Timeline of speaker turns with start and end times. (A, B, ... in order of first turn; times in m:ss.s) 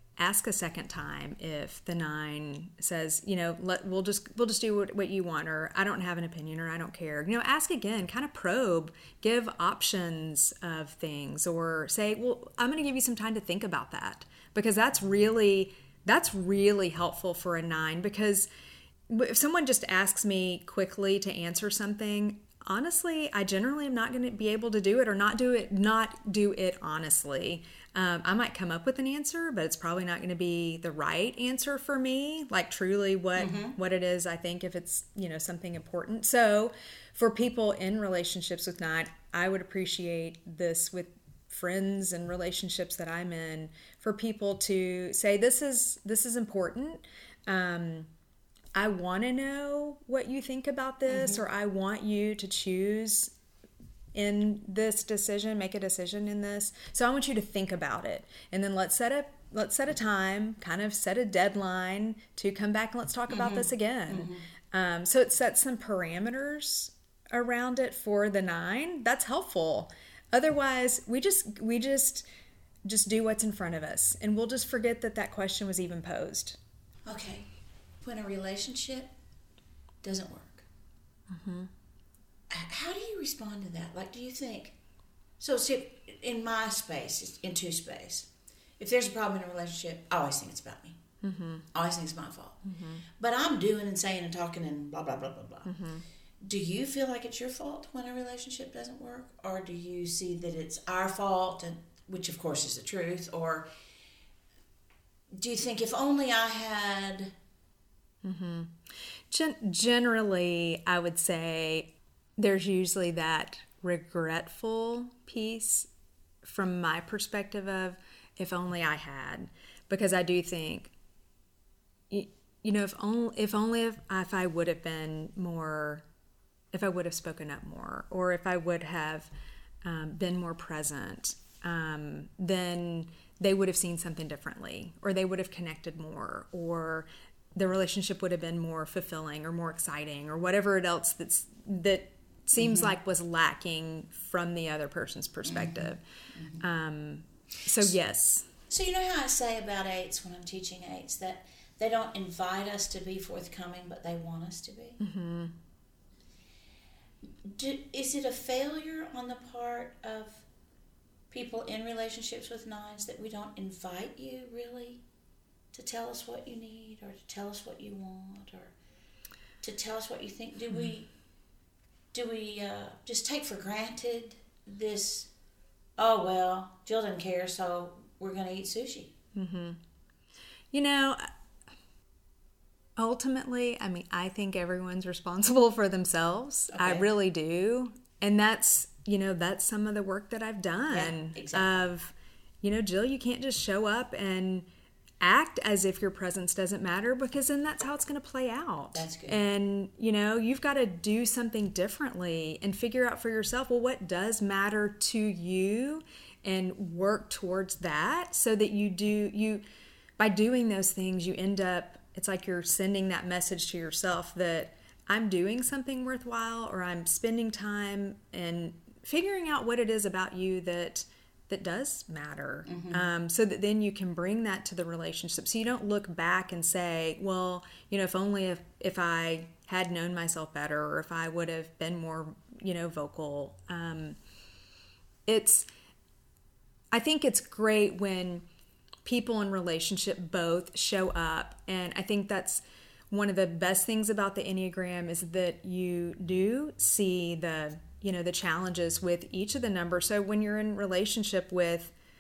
0:00.2-0:18.5 A
0:19.1-0:48.1 A
0:33.4-0:33.8 B
0:48.7-0:53.3 A
0:51.1-0:51.4 B
0:54.1-1:12.2 A
1:03.3-1:04.5 B
1:12.8-1:16.6 A
1:17.1-1:17.5 B
1:18.0-1:19.1 B
1:20.0-1:20.6 B
1:21.3-1:21.7 A
1:22.5-1:24.8 B
1:25.4-1:31.0 B
1:31.2-1:31.7 A
1:31.7-1:32.6 B
1:32.6-1:33.0 A
1:33.2-1:35.7 B
1:35.6-1:36.0 A
1:36.4-1:43.7 B
1:45.3-1:47.3 B
1:48.2-1:55.9 A
1:56.4-2:00.9 A
2:02.1-2:06.0 A
2:06.7-2:09.3 A
2:09.8-2:26.0 A
2:22.6-2:22.9 B
2:25.4-2:26.6 B
2:26.6-2:28.5 A
2:28.7-2:35.0 B
2:35.0-2:35.6 A
2:37.4-2:40.4 B
2:41.3-2:45.0 B
2:45.7-2:48.7 B
2:49.6-2:51.1 B
2:52.1-2:55.3 B
2:56.0-2:59.1 B
2:59.4-2:59.8 A
3:00.7-3:01.3 A
3:03.0-3:14.6 A
3:06.7-3:07.1 B
3:10.9-3:11.9 B
3:15.2-3:29.6 A
3:18.9-3:19.4 B
3:30.2-3:54.2 A
3:42.6-3:43.1 B
3:55.2-3:55.7 A
3:56.9-3:58.4 A
3:59.0-4:11.9 A